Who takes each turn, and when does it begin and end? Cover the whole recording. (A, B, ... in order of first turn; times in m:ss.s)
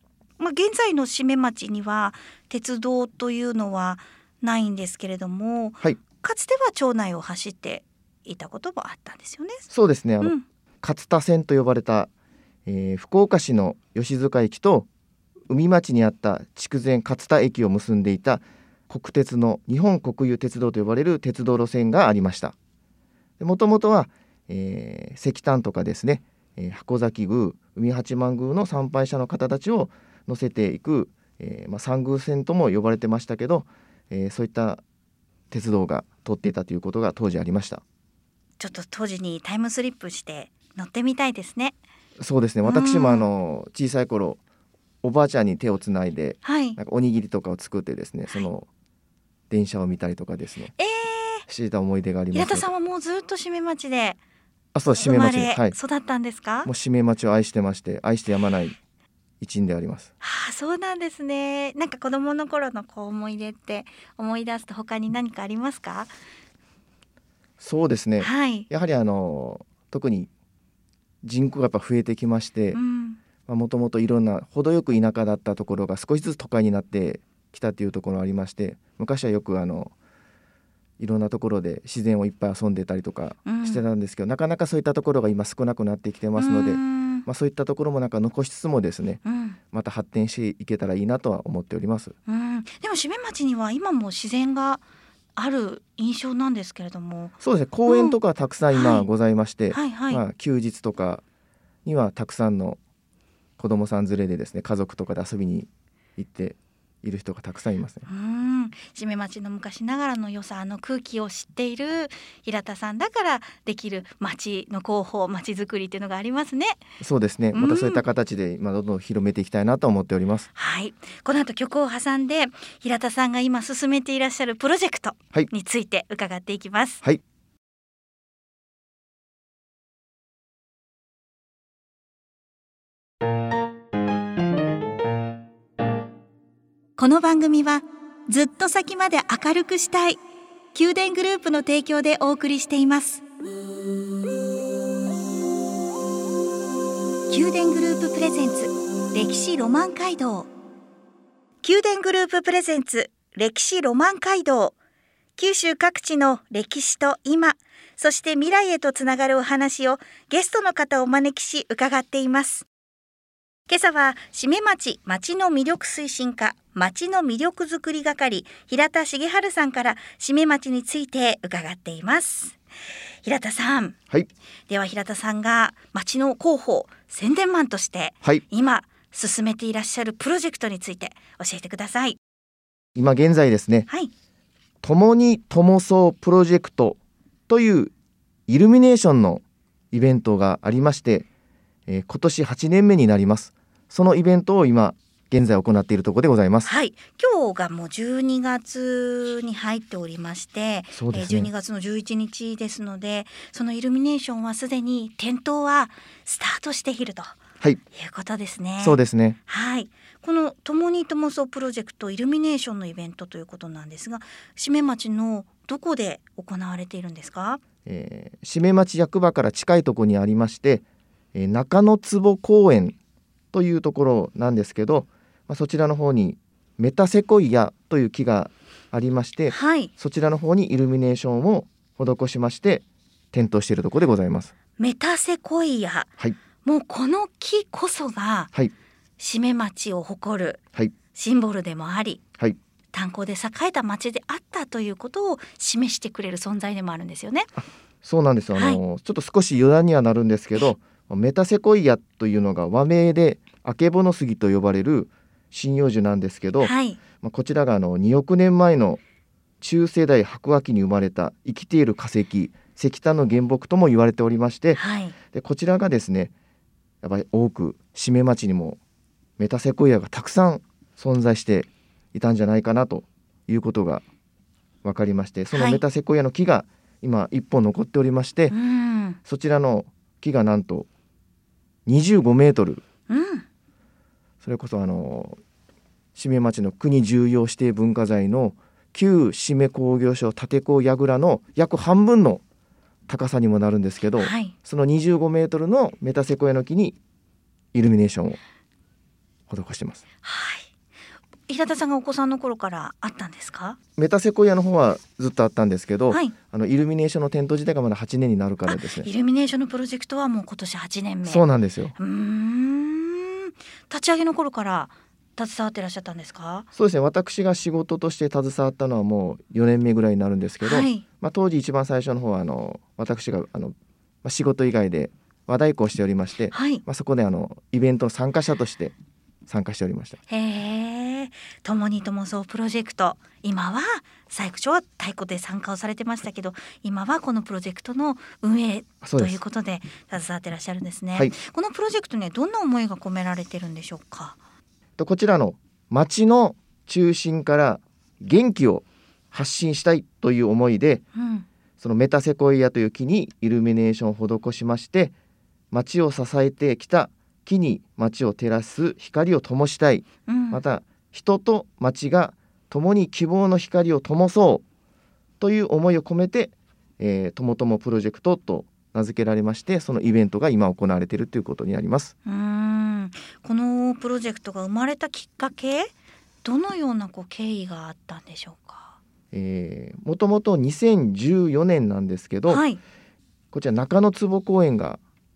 0:00.4-0:09.7 A
0:09.7-0:12.1 B
0:12.6-0:14.9 B
0:15.5-0:22.5 B
0:23.4-0:34.8 B
0:35.5-0:37.8 B
0:38.6-0:41.8 A
0:42.2-0:44.4 B
0:42.6-0:43.3 A
0:45.0-0:48.7 B
0:46.4-0:46.8 A
0:49.5-0:50.7 B
0:50.8-0:51.4 A
0:51.5-0:52.7 B
0:52.3-0:54.2 A
0:54.7-0:55.8 B
0:54.9-0:56.7 A
0:56.6-0:58.8 B
0:59.4-1:00.1 B
1:00.2-1:06.1 A
1:07.6-1:10.3 B
1:08.2-1:08.7 A
1:11.2-1:12.8 B
1:12.7-1:13.2 A
1:13.5-1:19.9 B
1:21.0-1:29.2 B
1:23.4-1:23.8 A
1:26.4-1:27.2 A
1:29.2-1:29.6 A
1:29.7-1:32.1 B
1:32.3-1:34.8 A
1:35.4-1:37.4 A
1:37.4-1:41.2 B
1:37.9-1:38.2 A
1:38.7-1:39.1 A
1:39.7-1:40.2 A
1:41.8-1:42.8 B
1:43.6-1:48.0 B
1:48.1-1:56.8 A
1:57.0-2:00.5 B
1:57.5-1:58.0 A
2:00.5-2:07.0 A
2:17.0-2:20.2 A
2:20.7-2:23.2 A
2:27.3-2:30.5 A
2:31.6-2:34.8 A
2:35.4-2:42.7 A
2:43.7-2:52.6 A
2:53.2-2:54.0 A
2:54.7-3:02.2 A
3:03.0-3:03.9 B
3:04.8-3:07.0 B
3:07.5-3:07.9 B
3:08.5-3:11.3 B
3:11.9-3:16.7 B
3:16.6-3:27.4 A
3:20.9-3:21.5 B
3:27.9-3:37.6 A
3:28.8-3:29.4 B
3:37.8-3:43.0 B
3:43.5-3:54.5 B
3:49.5-3:49.9 A
3:54.8-3:56.1 A
3:56.6-3:58.5 A
3:59.2-4:00.6 A
4:01.1-4:02.2 A
4:02.9-4:07.5 A
4:08.0-4:19.0 B
4:08.5-4:08.8 A
4:16.6-4:17.0 A
4:19.6-4:24.8 B
4:24.8-4:25.2 A
4:25.3-4:26.3 B
4:27.0-4:28.8 B
4:29.4-4:34.0 B
4:34.8-4:38.5 B
4:35.5-4:35.8 A
4:38.5-4:39.2 A
4:39.2-4:40.9 B
4:41.8-4:42.8 B
4:43.1-4:43.4 A
4:44.4-4:45.4 B
4:46.1-4:52.4 B
4:53.1-4:57.0 B
4:54.2-4:54.5 A
4:57.7-4:58.4 B
4:59.5-5:00.0 B
5:00.2-5:00.7 A
5:01.5-5:03.8 A
5:04.0-5:09.1 B
5:08.7-5:11.4 A
5:11.2-5:11.9 B
5:12.0-5:16.7 A
5:16.7-5:28.9 B
5:20.6-5:21.0 A
5:26.5-5:26.8 A
5:29.5-5:30.2 B
5:30.3-5:44.4 A
5:39.0-5:39.4 B
5:45.0-5:51.0 B
5:51.1-5:51.4 A
5:51.8-5:55.1 B
5:55.7-6:04.6 B
6:00.3-6:00.6 A
6:05.4-6:12.1 B
6:12.2-6:15.9 A
6:16.4-6:19.0 A
6:19.3-6:22.6 B
6:22.5-6:22.8 A
6:23.5-6:25.0 B